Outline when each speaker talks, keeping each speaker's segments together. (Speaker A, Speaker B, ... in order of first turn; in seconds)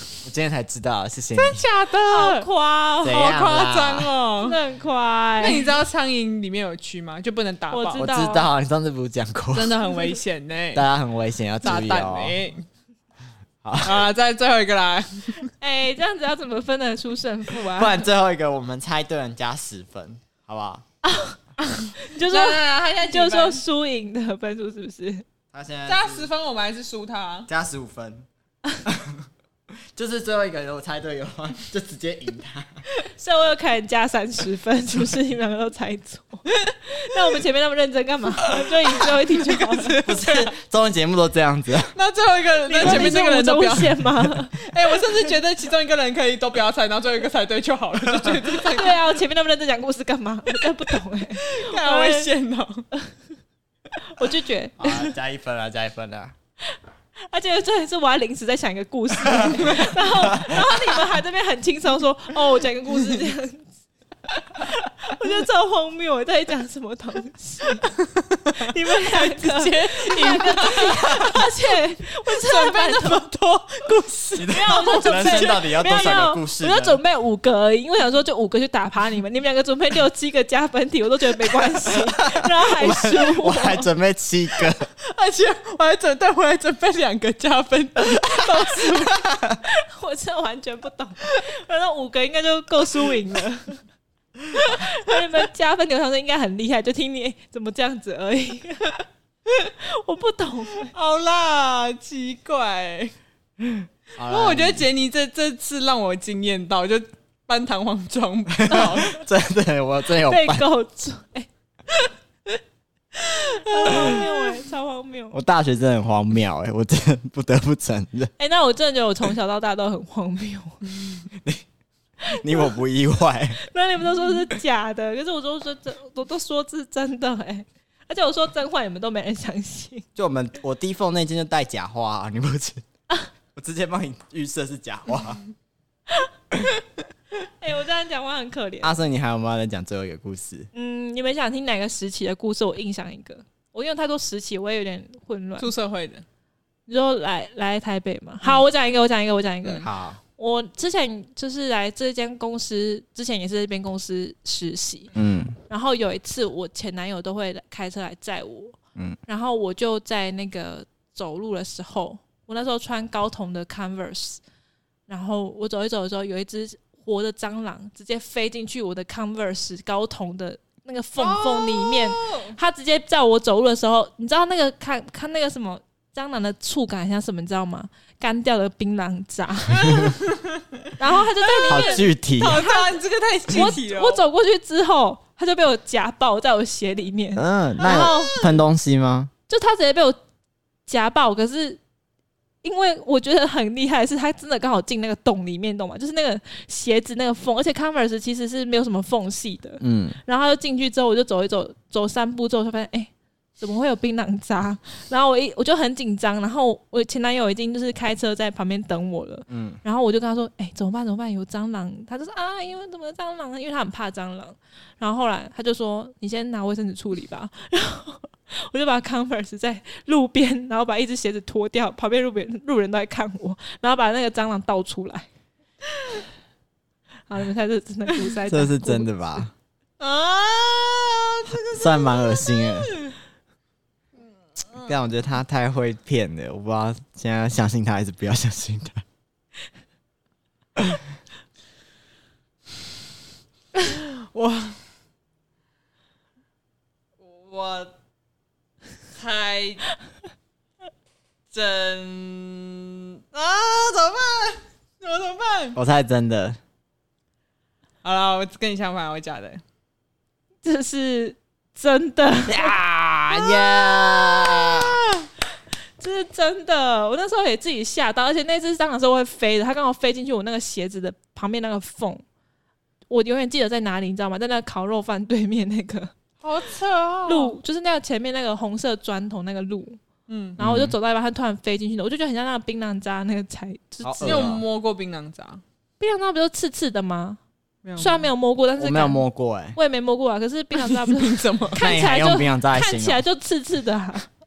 Speaker A: 0.2-1.6, 3.0-4.1, 8.0-9.8, 10.7-12.4, 13.6-14.0, 17.8-20.8, 25.5-26.3, 27.5-28.3, 28.8-29.3, 29.9-32.8, 40.0-41.9, 54.8-56.3, 59.2-60.6, 74.3-77.0, 82.0-84.9, 89.3-89.6, 103.6-104.8, 108.6-110.6, 115.3-118.3, 121.3-121.6, 122.2-123.6, 130.2-132.8, 133.5-135.4, 138.8-140.7, 149.8-150.2, 155.1-155.6, 181.7-182.6, 187.3-189.3, 199.8-200.2, 209.5-209.8, 228.5-229.5, 231.7-232.9, 234.8-239.0, 240.8-241.0, 255.7-256.6, 262.5-265.0, 280.6-280.9, 284.0-284.6, 288.8-289.8, 291.8-293.2
Speaker B: 1.3-2.5, 3.1-4.6, 5.4-8.1, 9.5-10.8, 11.6-12.6, 13.8-15.5, 21.7-23.6, 25.9-27.5, 39.4-40.5, 41.9-49.1, 51.3-52.8, 68.3-71.5, 72.3-75.6, 85.1-89.2, 100.8-103.1, 104.2-109.2, 113.3-114.5, 145.6-146.2, 171.2-172.5, 179.7-180.8, 181.3-184.2, 187.8-188.5, 230.0-233.1, 243.8-244.8, 247.2-247.9, 249.1-249.9, 251.5-255.8, 258.0-259.6, 276.4-277.6, 280.3-280.6, 284.2-285.6, 287.8-288.3, 290.7-291.8
Speaker C: 2.1-3.4, 4.4-5.7, 7.7-8.5, 15.6-18.1, 21.0-21.4, 22.0-25.2, 33.2-40.1, 42.7-44.6, 48.7-52.3, 54.0-55.1, 57.2-63.7, 64.5-67.9, 68.6-73.2, 74.5-83.9, 88.6-93.8, 94.5-99.0, 99.8-100.9, 110.2-111.5, 113.3-115.4, 118.4-120.8, 123.6-130.1, 137.6-139.0, 140.7-145.7, 146.9-155.1, 155.7-158.8, 159.3-164.4, 165.1-180.1, 181.0-188.5, 189.5-190.2, 190.9-191.8, 192.6-225.3, 227.3-229.1, 260.6-262.8, 266.0-272.2, 273.1-276.1, 277.3-280.0, 280.6-284.5, 286.0-287.4, 288.0-289.2, 289.7-294.3